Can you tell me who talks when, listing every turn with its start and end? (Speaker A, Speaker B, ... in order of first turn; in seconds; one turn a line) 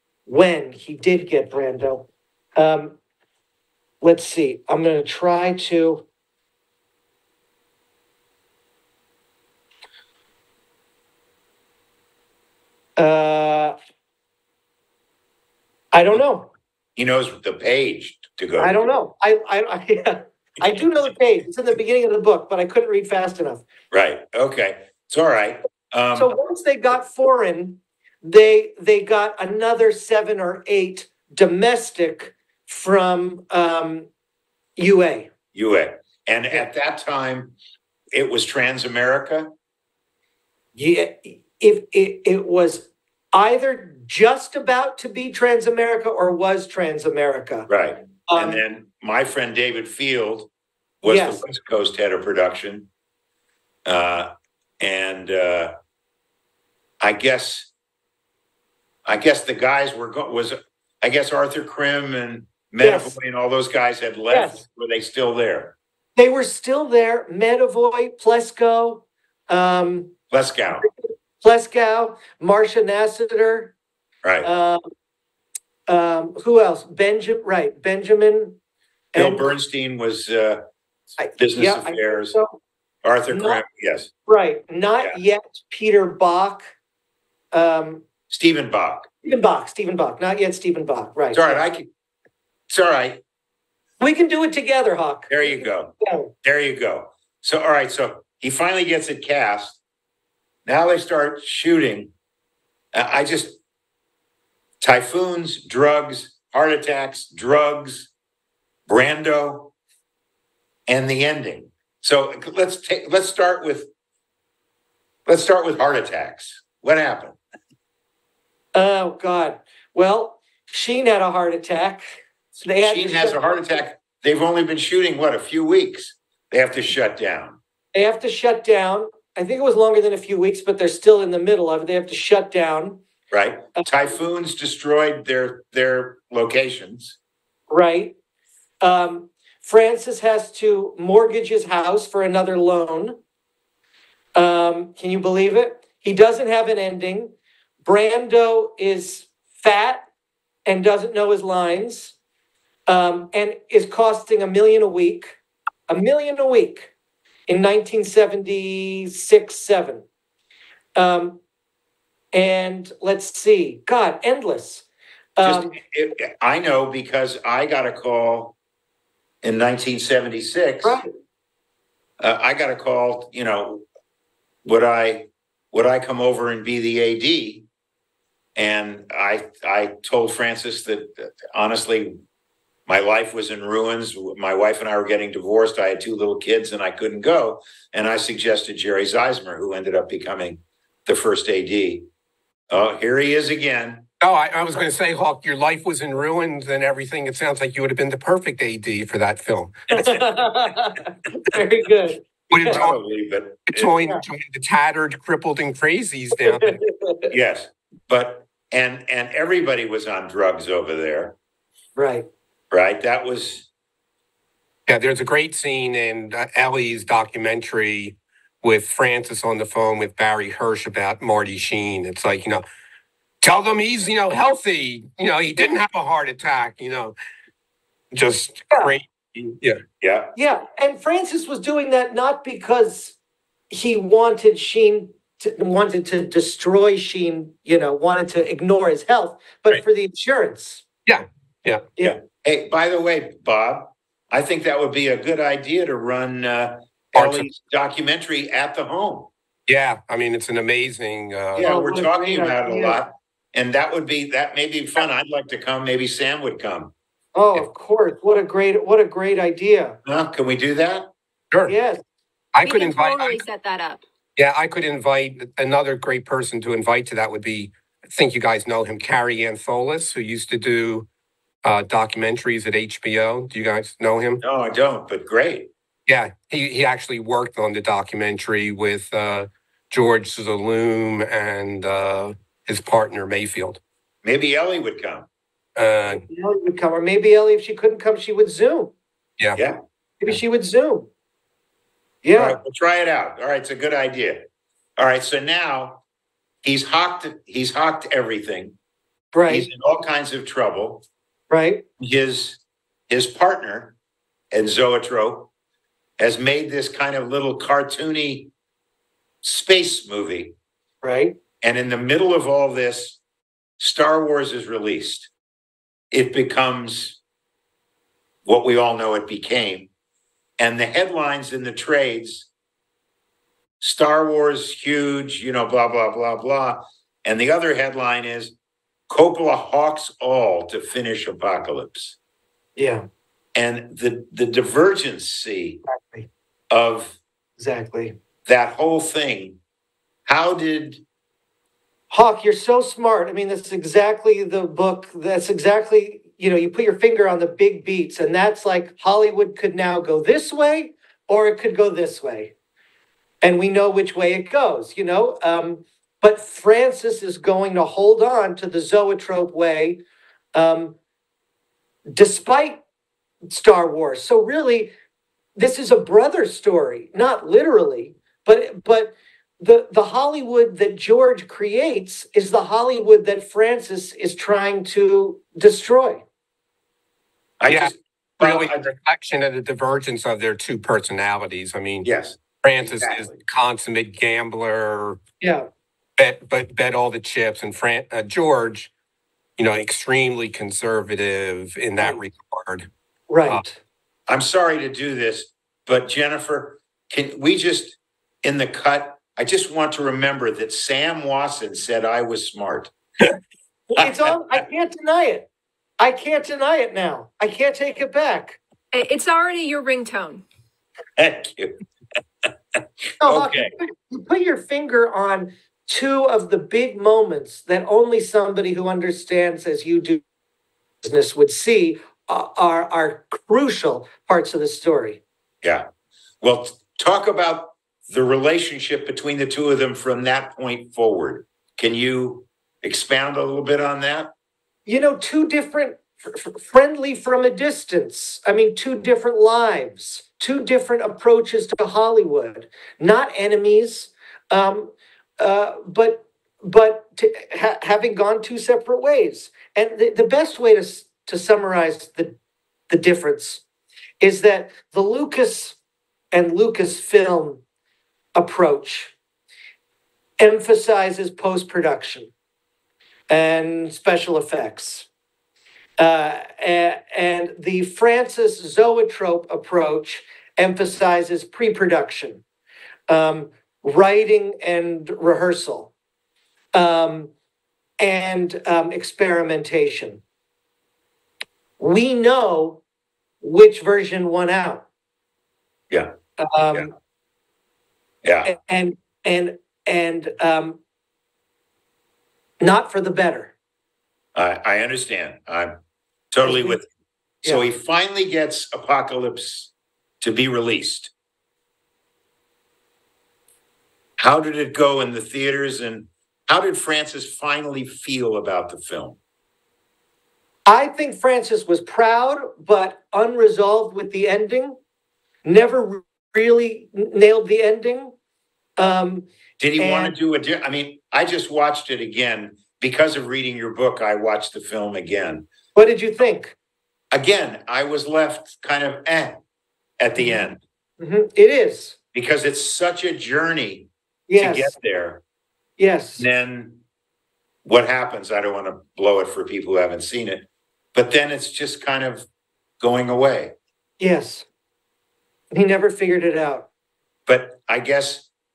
Speaker A: 0.2-3.0
Speaker A: 4.0-6.0
Speaker A: 13.0-13.8
Speaker A: 15.9-16.5
Speaker B: 16.9-18.8
Speaker A: 18.6-23.6
Speaker B: 23.9-26.3
Speaker A: 26.1-34.1
Speaker A: 34.8-35.3
Speaker B: 35.5-37.5
Speaker B: 38.1-39.5
Speaker A: 40.7-47.7
Speaker B: 47.7-50.5
Speaker A: 48.3-48.6
Speaker B: 51.0-52.9
Speaker A: 51.0-51.4
Speaker B: 53.9-55.7
Speaker B: 57.0-57.7
Speaker B: 59.0-65.7
Speaker A: 62.8-63.1
Speaker A: 64.3-64.6
Speaker A: 66.2-70.1
Speaker B: 70.3-70.9
Speaker A: 70.8-73.7
Speaker B: 74.2-74.5
Speaker A: 74.4-74.8
Speaker A: 75.9-78.6
Speaker A: 79.1-79.5
Speaker B: 79.2-80.6
Speaker A: 81.2-82.6
Speaker B: 81.4-82.3
Speaker B: 83.0-84.1
Speaker A: 83.3-83.6
Speaker A: 84.2-86.7
Speaker A: 87.5-88.0
Speaker B: 88.3-89.1
Speaker A: 89.2-91.6
Speaker B: 91.3-91.9
Speaker B: 92.7-93.2
Speaker A: 94.0-96.3
Speaker B: 95.3-99.8
Speaker B: 100.7-102.1
Speaker B: 102.9-103.6
Speaker B: 104.8-108.1
Speaker B: 108.9-109.7
Speaker B: 110.9-113.9
Speaker B: 115.2-117.4
Speaker A: 118.7-122.0
Speaker A: 122.6-123.5
Speaker B: 122.8-127.6
Speaker A: 127.9-133.0
Speaker B: 133.3-137.2
Speaker A: 133.8-134.2
Speaker A: 137.7-138.2
Speaker A: 138.8-143.2
Speaker A: 144.3-147.3
Speaker A: 147.8-150.1
Speaker A: 150.7-152.1
Speaker A: 152.9-155.4
Speaker A: 155.9-156.9
Speaker A: 157.5-160.0
Speaker A: 160.9-161.4
Speaker A: 162.3-164.8
Speaker A: 165.4-165.7
Speaker B: 165.4-168.6
Speaker B: 169.4-171.0
Speaker A: 170.8-171.1
Speaker B: 172.2-173.8
Speaker B: 174.6-177.7
Speaker B: 178.6-182.1
Speaker B: 182.9-192.1
Speaker B: 192.7-194.1
Speaker C: 194.2-200.2
Speaker A: 199.9-202.8
Speaker C: 202.5-203.0
Speaker B: 202.7-204.0
Speaker C: 203.7-206.8
Speaker A: 206.4-207.3
Speaker B: 207.3-211.3
Speaker A: 211.9-212.3
Speaker B: 212.7-213.7
Speaker C: 214.9-222.6
Speaker C: 223.4-227.1
Speaker C: 228.1-229.8
Speaker B: 230.0-230.3
Speaker A: 230.3-233.2
Speaker A: 233.7-240.8
Speaker C: 241.1-241.8
Speaker B: 242.0-249.3
Speaker C: 247.2-247.5
Speaker C: 249.7-251.7
Speaker B: 251.6-256.9
Speaker A: 251.6-253.0
Speaker A: 257.3-260.0
Speaker B: 260.0-261.1
Speaker A: 261.7-262.0
Speaker C: 262.5-263.4
Speaker D: 262.6-264.0
Speaker C: 264.4-271.1
Speaker C: 271.6-274.4
Speaker B: 274.4-275.7
Speaker C: 276.1-283.8
Speaker B: 284.2-285.3
Speaker C: 285.8-286.2
Speaker A: 286.3-288.9
Speaker A: 290.2-291.1
Speaker A: 292.2-292.6
Speaker B: 292.3-296.0
Speaker B: 296.6-298.7
Speaker A: 299.3-299.7
Speaker B: 299.5-301.0
Speaker A: 301.5-301.8
Speaker B: 302.0-303.9
Speaker B: 304.5-305.5
Speaker B: 306.2-308.5
Speaker B: 309.4-310.6
Speaker A: 311.0-311.4
Speaker B: 311.6-313.2
Speaker B: 313.8-315.3
Speaker B: 316.1-317.2
Speaker B: 318.4-319.9
Speaker B: 320.6-322.5
Speaker B: 323.8-328.5
Speaker B: 329.1-332.1
Speaker A: 332.8-333.1
Speaker B: 333.5-335.8
Speaker A: 335.9-336.3
Speaker B: 336.7-337.2
Speaker A: 337.6-338.1
Speaker B: 338.4-339.6
Speaker B: 340.2-341.0
Speaker A: 342.1-352.5
Speaker A: 353.4-360.0
Speaker A: 360.5-361.0
Speaker A: 362.1-362.8
Speaker A: 363.5-364.9
Speaker A: 365.6-376.2
Speaker B: 377.6-378.9
Speaker C: 377.7-382.1
Speaker B: 382.0-383.4
Speaker C: 382.6-385.2
Speaker A: 385.4-385.7
Speaker C: 386.2-388.9
Speaker C: 389.6-392.9
Speaker A: 393.3-393.8
Speaker B: 394.3-402.9
Speaker A: 403.9-405.5
Speaker B: 404.0-404.6
Speaker A: 406.0-408.6
Speaker D: 408.9-410.4
Speaker B: 411.2-411.8
Speaker B: 412.7-413.7
Speaker A: 413.2-420.2
Speaker A: 421.0-425.2
Speaker B: 426.4-434.3
Speaker A: 434.9-452.3
Speaker A: 452.9-453.6
Speaker A: 454.2-455.8
Speaker A: 456.3-457.6
Speaker A: 458.4-459.1
Speaker A: 460.4-462.3
Speaker A: 463.3-465.1
Speaker A: 466.0-472.4
Speaker A: 473.1-475.9
Speaker A: 476.7-477.3
Speaker A: 478.0-480.2
Speaker A: 481.8-482.8
Speaker A: 483.4-484.9
Speaker B: 485.9-486.1
Speaker A: 486.4-486.9
Speaker B: 488.2-488.5
Speaker A: 488.4-490.8
Speaker A: 492.6-493.5
Speaker B: 494.3-495.8
Speaker B: 496.3-496.9
Speaker A: 496.4-496.8
Speaker B: 497.4-501.1
Speaker B: 504.2-509.2
Speaker A: 510.6-514.8
Speaker A: 515.4-518.1
Speaker A: 518.8-520.1
Speaker B: 519.6-525.5
Speaker A: 525.7-526.5
Speaker B: 527.1-529.4
Speaker B: 530.0-530.6
Speaker A: 530.2-530.4
Speaker A: 531.0-532.0
Speaker B: 532.1-535.2
Speaker A: 534.3-534.7
Speaker A: 535.8-536.2
Speaker B: 536.2-536.8
Speaker B: 537.6-542.3
Speaker B: 542.8-543.5
Speaker A: 544.0-544.5
Speaker A: 545.5-546.7
Speaker B: 547.3-548.3